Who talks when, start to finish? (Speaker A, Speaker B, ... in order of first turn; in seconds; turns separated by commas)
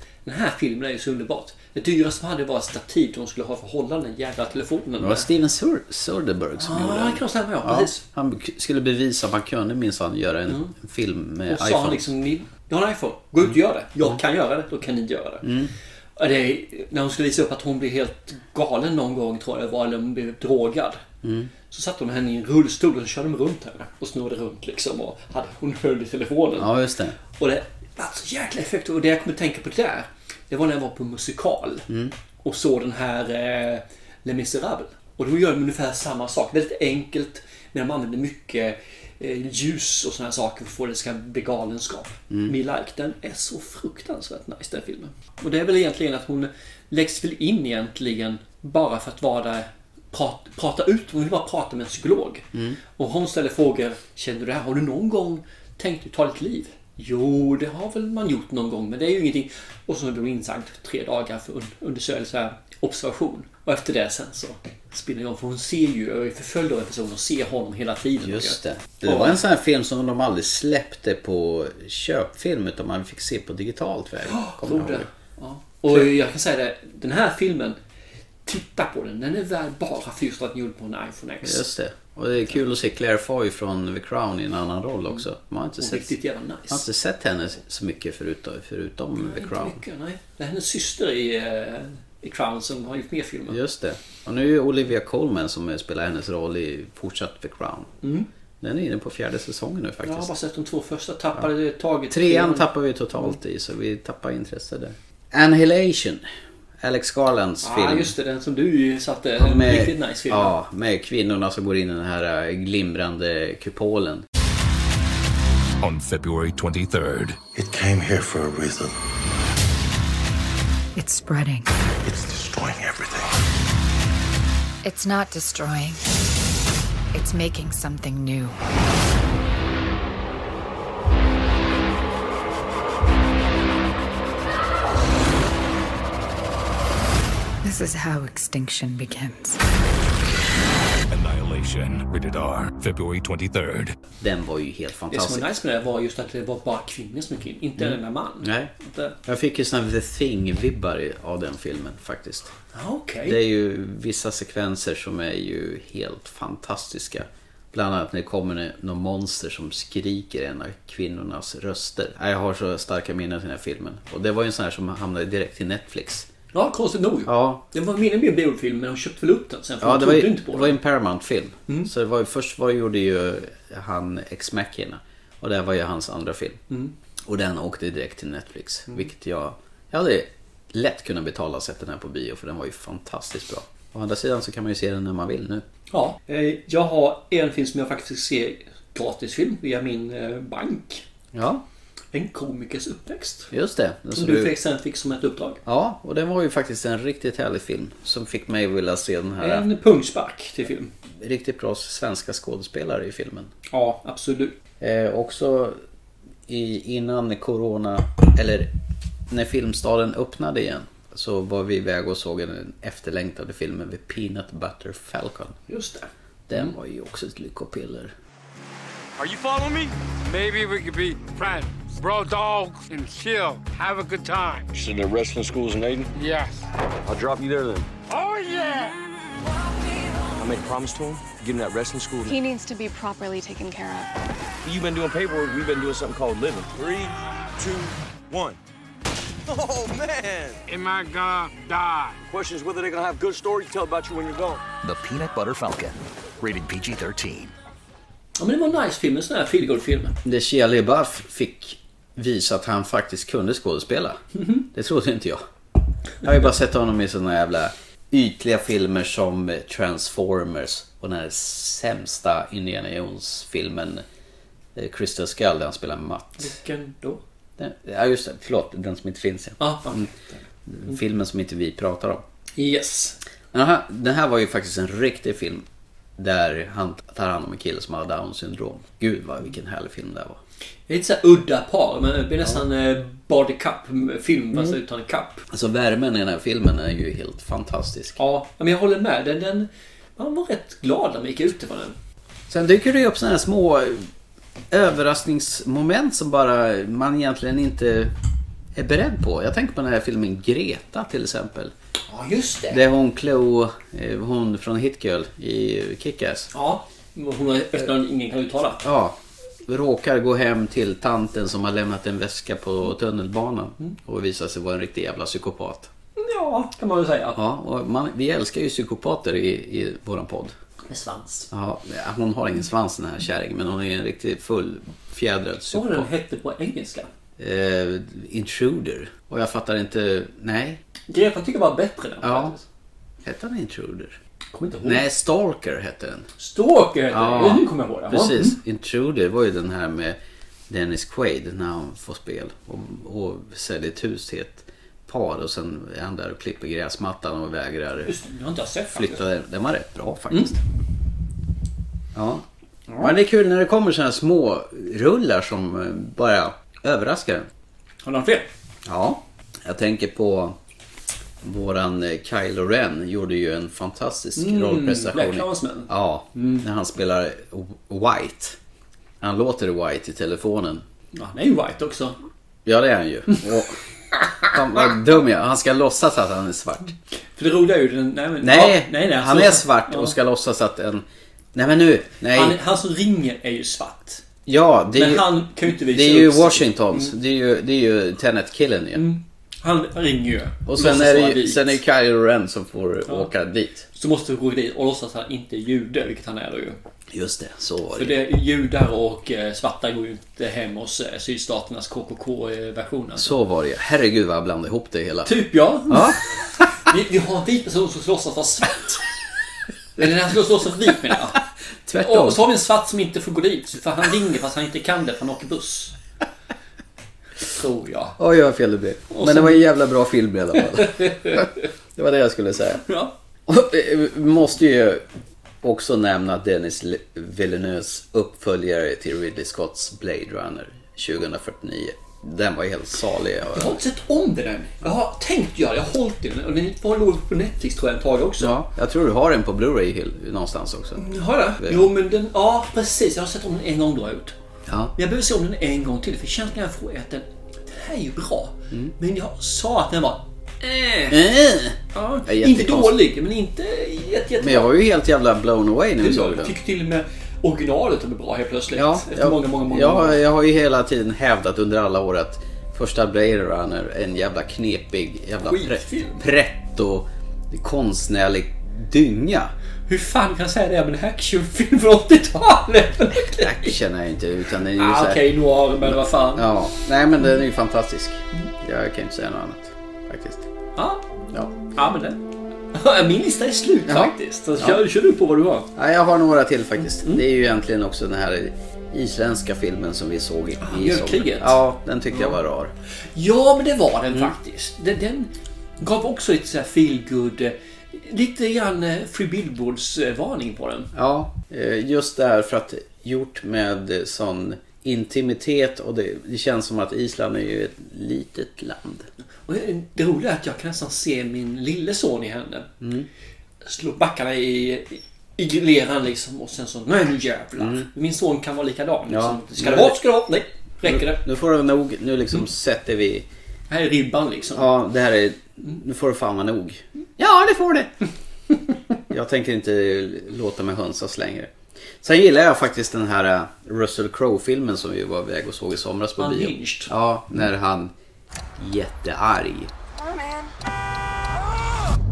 Speaker A: 0.2-5.3, Speaker B: 5.0-12.1, Speaker A: 6.6-8.0, Speaker A: 10.5-10.7, Speaker A: 11.5-15.5, Speaker B: 15.4-15.7, Speaker A: 16.2-21.0, Speaker B: 21.2-21.5, Speaker A: 21.7-26.7, Speaker B: 26.6-27.1, Speaker A: 27.4-31.9, Speaker B: 31.9-32.1, Speaker A: 32.4-69.4, Speaker B: 42.3-42.5, Speaker B: 52.5-52.8, Speaker B: 68.2-75.0, Speaker A: 74.3-77.8, Speaker A: 78.5-81.6, Speaker B: 81.4-86.1, Speaker A: 85.8-86.8, Speaker B: 86.7-89.8, Speaker A: 89.2-93.6, Speaker B: 93.5-97.9, Speaker A: 98.0-98.3, Speaker B: 98.6-100.3, Speaker A: 100.0-102.7, Speaker B: 102.1-106.2, Speaker B: 106.8-108.1, Speaker A: 107.6-110.5, Speaker B: 109.4-114.2, Speaker C: 115.8-117.4, Speaker D: 117.5-118.9, Speaker E: 121.0-121.7, Speaker D: 122.0-123.3, Speaker E: 124.8-126.0, Speaker E: 127.1-128.5, Speaker E: 137.6-139.6, Speaker C: 141.1-143.9, Speaker B: 144.2-145.5, Speaker A: 145.1-149.2, Speaker B: 147.8-148.7, Speaker B: 149.2-152.5, Speaker A: 152.7-153.4, Speaker B: 153.2-166.3, Speaker A: 166.5-170.8, Speaker B: 167.2-167.6, Speaker B: 169.8-176.6, Speaker B: 177.3-185.6, Speaker A: 185.9-191.0, Speaker B: 191.3-191.6, Speaker A: 192.1-193.5, Speaker B: 193.5-194.5, Speaker A: 194.1-195.6, Speaker B: 195.7-199.7, Speaker A: 199.4-200.9, Speaker B: 201.2-203.5, Speaker A: 203.7-204.6, Speaker B: 204.8-205.8, Speaker B: 206.5-208.7, Speaker B: 209.3-215.6, Speaker A: 215.7-216.1, Speaker B: 216.5-218.1, Speaker F: 219.2-224.7, Speaker G: 224.7-226.1, Speaker F: 226.2-226.6, Speaker G: 227.1-227.9, Speaker F: 228.1-228.9, Speaker G: 230.3-232.4, Speaker H: 232.2-234.1, Speaker G: 234.6-238.6, Speaker G: 239.4-240.6, Speaker F: 240.7-242.1, Speaker G: 242.2-244.6, Speaker I: 244.8-247.5, Speaker A: 248.4-250.2, Speaker B: 250.2-255.4, Speaker A: 254.4-254.6, Speaker B: 256.2-264.0, Speaker B: 264.7-266.5, Speaker A: 266.4-267.2, Speaker B: 267.6-270.1, Speaker A: 269.6-270.9, Speaker B: 270.6-272.2, Speaker A: 272.6-273.2, Speaker B: 273.5-275.6, Speaker B: 276.2-280.4, Speaker A: 280.9-285.4, Speaker B: 285.5-288.2, Speaker A: 288.2-291.9, Speaker B: 292.5-294.1, Speaker B: 294.7-298.1, Speaker B: 298.7-301.7, Speaker A: 302.1-302.8, Speaker B: 302.7-306.5, Speaker A: 306.5-308.8, Speaker B: 308.8-315.9, Speaker A: 316.2-317.4, Speaker B: 317.3-320.5, Speaker A: 320.9-321.5, Speaker B: 321.5-326.1, Speaker A: 325.7-327.1, Speaker B: 327.4-330.8, Speaker A: 331.1-332.6, Speaker B: 332.2-332.6, Speaker B: 333.2-334.2, Speaker A: 334.5-335.0, Speaker B: 334.8-336.3, Speaker A: 336.4-338.5, Speaker B: 337.1-340.2, Speaker B: 340.7-348.1, Speaker A: 348.0-349.2, Speaker B: 348.9-350.6, Speaker B: 352.1-352.4, Speaker A: 352.9-353.1, Speaker B: 353.0-357.5, Speaker A: 358.0-358.5, Speaker B: 358.8-360.6, Speaker B: 361.4-368.6, Speaker A: 364.4-366.6, Speaker B: 369.2-370.8, Speaker A: 371.1-372.2, Speaker B: 372.6-373.8, Speaker B: 374.5-376.9, Speaker A: 377.4-380.1, Speaker B: 378.4-382.6, Speaker A: 382.3-384.2, Speaker B: 384.4-389.0, Speaker A: 384.9-387.1, Speaker A: 388.9-391.8, Speaker B: 390.6-393.8, Speaker A: 393.9-396.8, Speaker B: 397.1-398.2, Speaker A: 397.9-403.3, Speaker B: 403.1-405.3, Speaker A: 405.2-409.1, Speaker B: 405.9-406.2, Speaker A: 410.0-411.4, Speaker B: 411.9-412.4, Speaker A: 412.0-415.9, Speaker A: 417.4-418.2, Speaker B: 418.2-422.9, Speaker A: 419.1-419.7, Speaker A: 420.7-421.5, Speaker A: 422.9-423.1, Speaker B: 423.5-425.0, Speaker B: 425.6-433.8, Speaker A: 433.5-438.5, Speaker B: 438.4-441.0, Speaker A: 441.0-444.3, Speaker B: 441.6-441.9, Speaker B: 444.7-444.9, Speaker A: 444.9-451.3, Speaker B: 451.1-453.0, Speaker A: 451.9-454.7, Speaker B: 454.4-456.6, Speaker A: 456.0-460.2, Speaker B: 458.8-469.5, Speaker A: 465.4-466.2, Speaker A: 469.9-473.8, Speaker B: 473.2-475.2, Speaker A: 474.8-476.5, Speaker B: 475.8-480.5, Speaker A: 480.8-481.0, Speaker A: 481.7-482.2, Speaker A: 482.7-485.7, Speaker B: 483.9-484.8, Speaker B: 485.7-492.7, Speaker A: 487.0-487.2, Speaker A: 490.6-491.6, Speaker A: 492.1-492.4, Speaker A: 493.1-500.9, Speaker B: 500.9-509.1, Speaker A: 509.5-512.7, Speaker B: 512.8-513.1, Speaker A: 513.6-521.2, Speaker B: 517.6-517.9, Speaker B: 519.1-520.0, Speaker B: 520.8-523.3, Speaker A: 523.7-524.7, Speaker B: 524.5-527.9, Speaker B: 529.1-537.9, Speaker A: 536.2-536.9, Speaker B: 538.6-539.7, Speaker H: 540.0-540.5